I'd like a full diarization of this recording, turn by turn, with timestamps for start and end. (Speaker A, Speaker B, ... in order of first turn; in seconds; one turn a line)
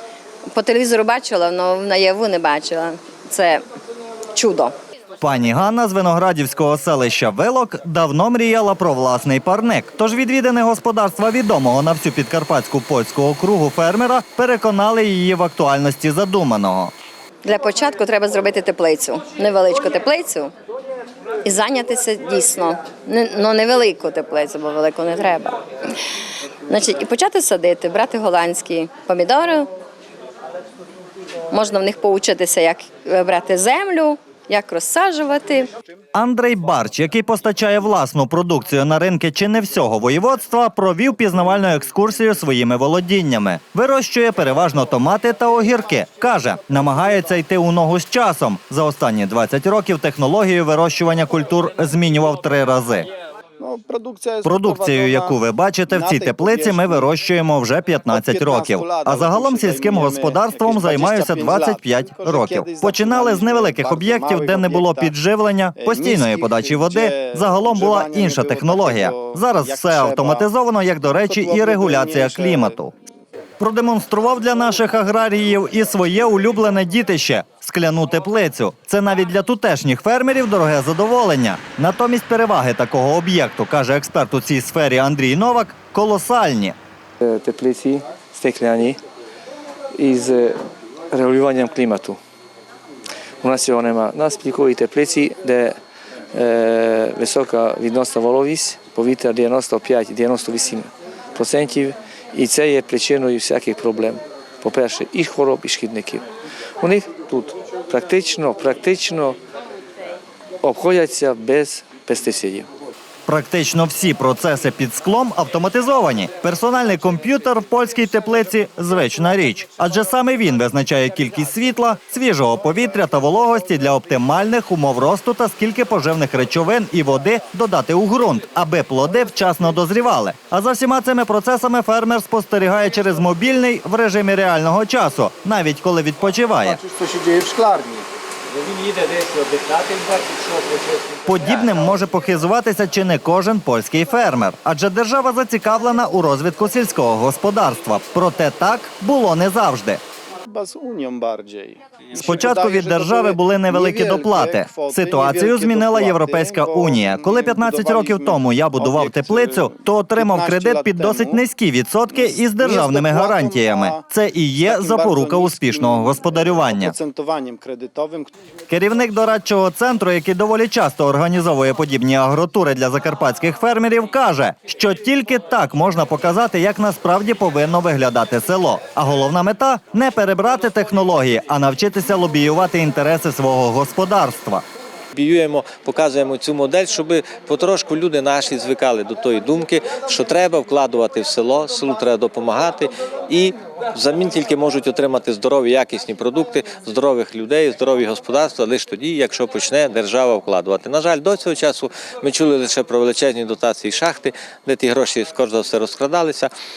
Speaker A: 0.5-3.6
Speaker A: 4.3-4.7
Speaker B: 5.2-16.9
Speaker A: 17.4-20.5
Speaker A: 21.4-25.6
Speaker A: 26.7-29.7
Speaker A: 31.5-35.7
Speaker B: 36.1-53.1
Speaker C: 53.6-57.1
Speaker B: 54.5-72.9
Speaker C: 58.1-65.1
Speaker C: 65.8-70.5
Speaker C: 71.3-72.8
Speaker B: 73.6-86.8
Speaker D: 87.2-89.0
Speaker D: 90.0-90.6
Speaker D: 91.1-92.2
Speaker D: 93.4-95.8
Speaker D: 96.3-106.2
Speaker D: 106.8-109.4
Speaker D: 110.6-112.7
Speaker B: 113.3-136.8
Speaker C: 136.7-138.1
Speaker E: 138.5-141.7
Speaker B: 141.3-150.0
Speaker C: 150.5-161.4
Speaker B: 152.1-166.9
Speaker C: 162.1-164.1
Speaker C: 164.7-168.3
Speaker B: 168.7-184.6
Speaker E: 185.1-206.5